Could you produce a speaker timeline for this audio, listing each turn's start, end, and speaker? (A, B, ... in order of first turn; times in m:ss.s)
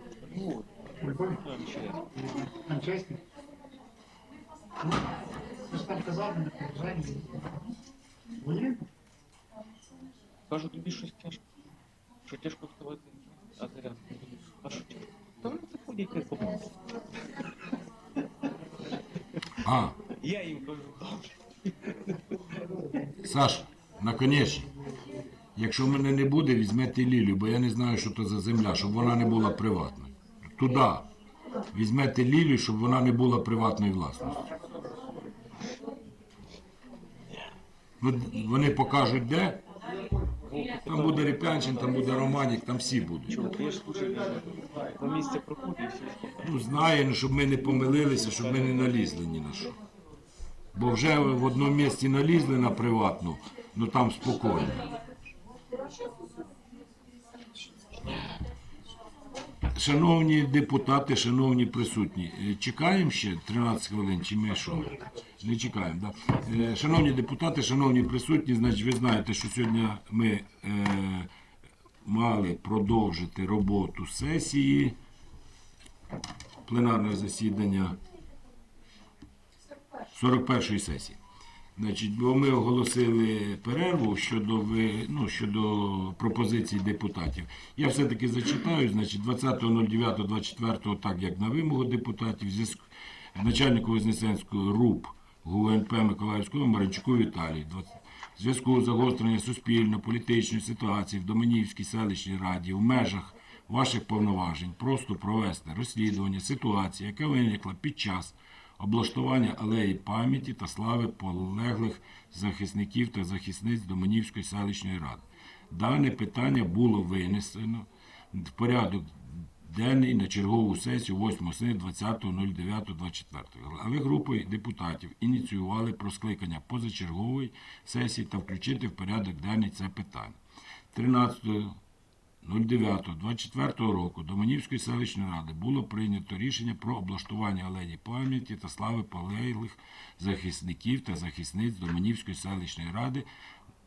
0:00.3-0:00.7 A
0:01.0-0:01.4 B
0:01.2-0:02.0 A
0:02.3-0:03.2 B
0:05.7-0:07.7 B
0:08.4-0:08.8 B
0:10.5-0:11.4 A
0:12.3-0:16.7 A
0:19.6-0:20.0 C
0:20.1-0:23.0 A
0:23.2-0:24.7 C
0:25.6-0:31.1 C
0:31.7-0:34.4 C
0:38.0-0:39.6 C
0:40.4-0:41.6 A
0:40.8-0:43.4 C
0:43.3-0:46.5 A
0:46.4-0:49.8 C
0:48.3-0:49.1 A
0:50.7-0:54.9 C
0:59.7-1:11.3 C
1:12.0-1:15.0 C
1:16.6-1:18.0 C
1:20.1-1:21.2 C
1:21.8-2:10.4 C
2:10.9-2:11.8 C
2:12.4-2:23.2 C